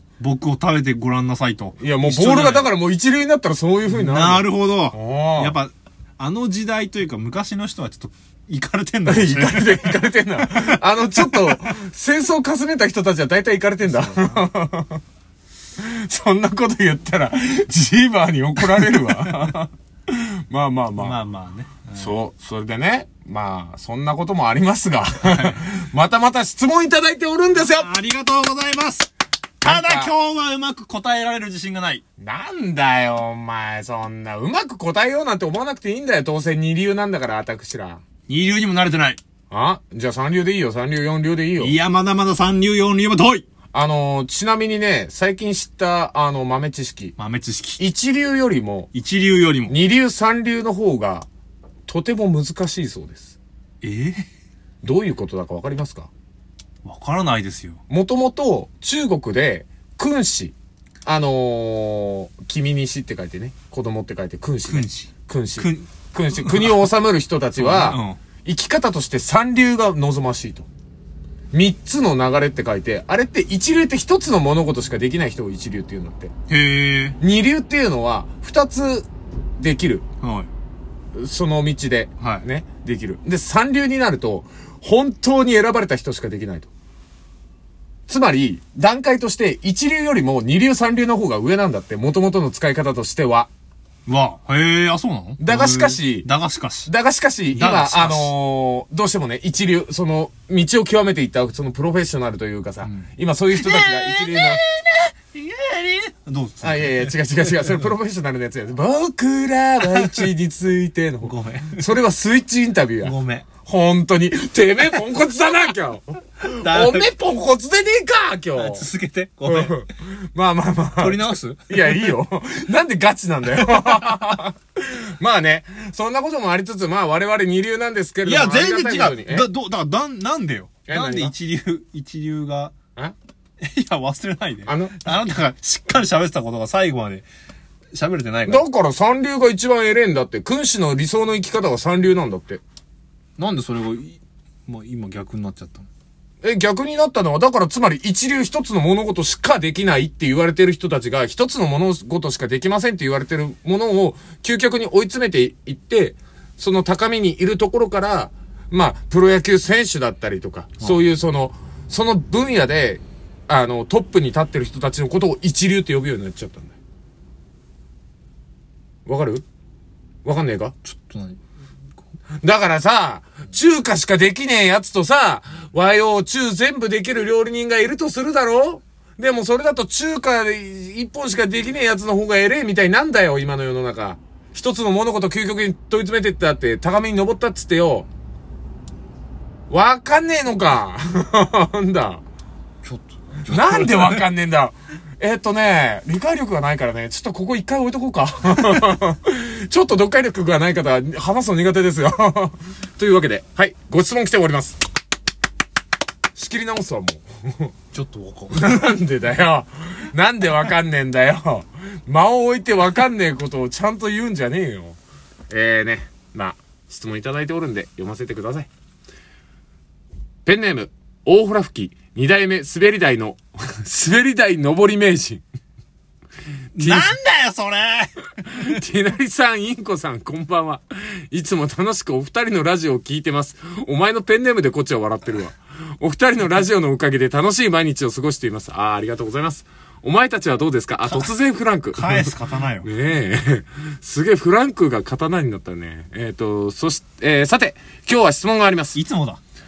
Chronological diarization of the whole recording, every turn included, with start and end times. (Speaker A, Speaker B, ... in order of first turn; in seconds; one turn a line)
Speaker A: 0.2-2.7
Speaker B: 1.8-5.6
Speaker A: 3.9-11.7
Speaker B: 9.1-15.0
Speaker A: 13.8-14.4
Speaker B: 15.8-21.2
Speaker A: 21.0-22.1
Speaker B: 21.9-27.9
Speaker A: 25.2-25.6
Speaker A: 27.5-29.1
Speaker A: 29.6-32.0
Speaker B: 29.6-30.1
Speaker B: 32.2-38.0
Speaker A: 38.3-39.2
Speaker B: 39.5-41.8
Speaker A: 41.6-43.5
Speaker B: 43.7-47.2
Speaker A: 47.2-47.9
Speaker B: 47.8-48.9
Speaker A: 48.9-49.8
Speaker B: 49.7-51.3
Speaker B: 51.9-53.3
Speaker A: 53.8-54.3
Speaker B: 54.8-56.1
Speaker A: 56.8-57.8
Speaker B: 57.9-70.7
Speaker A: 64.7-66.8
Speaker A: 67.6-68.2
Speaker B: 71.5-76.3
Speaker A: 76.5-77.2
Speaker B: 77.2-79.1
Speaker B: 79.6-80.0
Speaker A: 80.2-80.5
Speaker B: 81.1-86.7
Speaker A: 82.2-82.5
Speaker B: 88.1-93.5
Speaker A: 94.1-96.9
Speaker B: 95.4-96.3
Speaker B: 96.8-104.6
Speaker A: 97.5-98.3
Speaker A: 102.8-107.9
Speaker B: 106.6-118.8
Speaker A: 109.8-110.3
Speaker A: 111.2-111.9
Speaker A: 113.0-113.5
Speaker A: 116.5-117.1
Speaker A: 118.5-119.8
Speaker B: 119.5-129.5
Speaker A: 121.0-122.1
Speaker A: 123.6-124.2
Speaker A: 128.2-132.8
Speaker B: 130.9-131.3
Speaker A: 133.6-137.3
Speaker B: 134.7-135.0
Speaker A: 137.9-138.7
Speaker B: 138.5-142.6
Speaker A: 143.4-145.9
Speaker B: 146.4-166.8
Speaker B: 169.1-169.4
Speaker B: 170.2-170.8
Speaker A: 170.8-171.4
Speaker B: 172.4-188.1
Speaker B: 189.7-192.2
Speaker A: 192.8-194.3
Speaker B: 193.5-204.8
Speaker B: 206.3-207.7
Speaker A: 207.9-208.9
Speaker B: 208.5-215.0
Speaker B: 215.5-218.7
Speaker B: 220.4-225.4
Speaker A: 226.8-228.3
Speaker B: 226.8-227.2
Speaker B: 228.4-249.0
Speaker A: 241.1-241.3
Speaker A: 241.9-242.9
Speaker A: 248.9-249.4